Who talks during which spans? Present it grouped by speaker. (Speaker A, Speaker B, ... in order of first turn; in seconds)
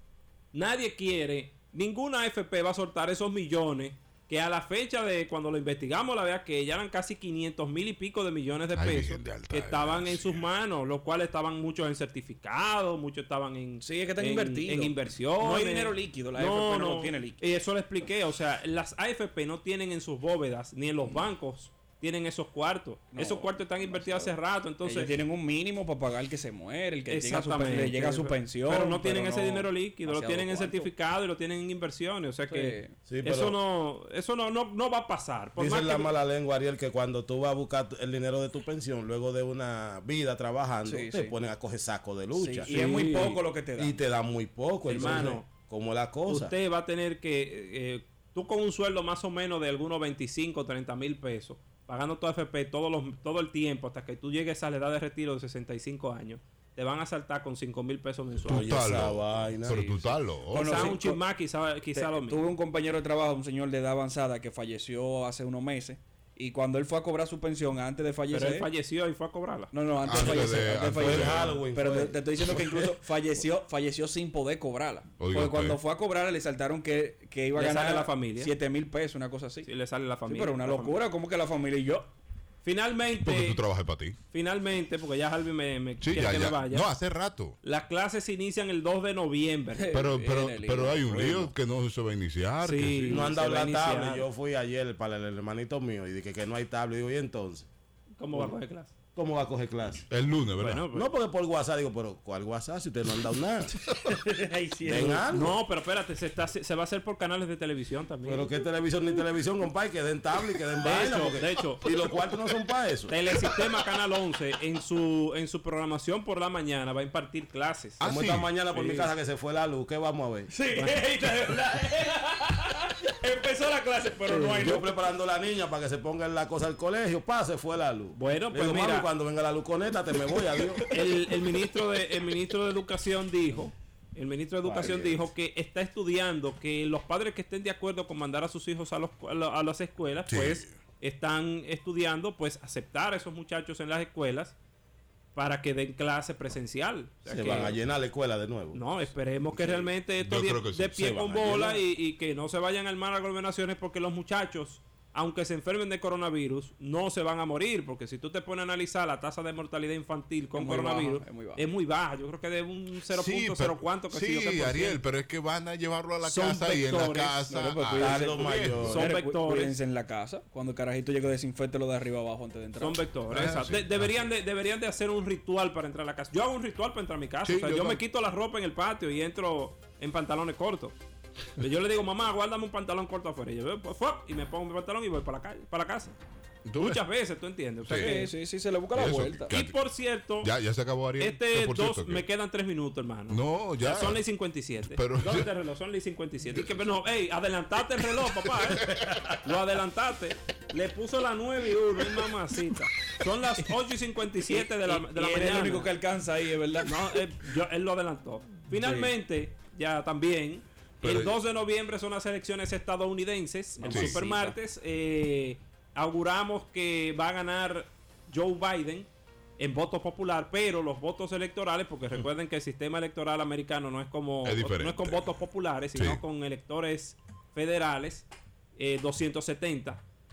Speaker A: 0.5-25.1, 27.1-36.1, 42.7-43.4, 44.9-45.5, 46.3-58.8, 60.5-62.4, 68.3-69.7, 77.5-78.5, 79.7-81.0, 82.6-83.6, 84.3-86.9, 87.6-89.9, 92.6-94.3, 98.2-98.9, 100.6-101.1, 105.3-108.5, 110.8-112.0, 113.1-118.0, 118.7-119.1, 120.7-121.5, 124.3-124.8, 128.2-129.1, 130.9-144.6, 145.3-147.8, 148.7-165.0, 166.2-167.5, 168.9-169.8, 172.8-180.9, 181.6-186.1, 186.8-188.3, 189.5-190.5, 191.2-205.9, 206.8-230.0
Speaker B: 8.7-10.5, 58.5-60.9, 70.0-71.6, 75.2-75.8, 83.2-84.2, 86.0-87.6, 89.9-93.3, 100.1-100.9, 118.0-118.5, 140.3-140.7, 150.2-151.5, 163.1-169.0, 173.3-174.1, 177.4-178.0, 186.7-187.0, 187.8-188.2, 188.9-189.8, 190.4-192.2, 193.3-194.2, 194.9-195.5, 198.4-199.4, 211.0-211.4, 213.9-214.2, 224.4-225.4, 225.9-226.2
Speaker C: 13.8-17.4, 23.1-24.3, 24.9-30.9, 32.5-32.9, 40.9-41.3, 42.4-44.0, 45.0-45.4, 59.7-61.2, 62.0-68.7, 69.7-79.7, 80.3-82.1, 89.8-91.5, 104.0-105.3, 120.5-125.0, 130.5-131.7, 160.6-161.7, 167.5-173.0, 188.0-189.5, 204.5-207.2, 208.8-209.1, 213.8-214.6
Speaker D: 33.1-33.6, 35.6-42.7, 43.8-46.5, 58.5-59.8, 70.9-73.0, 93.1-97.7, 99.2-100.1, 100.9-103.8, 104.8-105.6, 108.2-113.2, 118.0-120.5, 124.6-130.8, 134.7-135.2, 147.3-148.8, 151.4-151.8, 168.0-169.1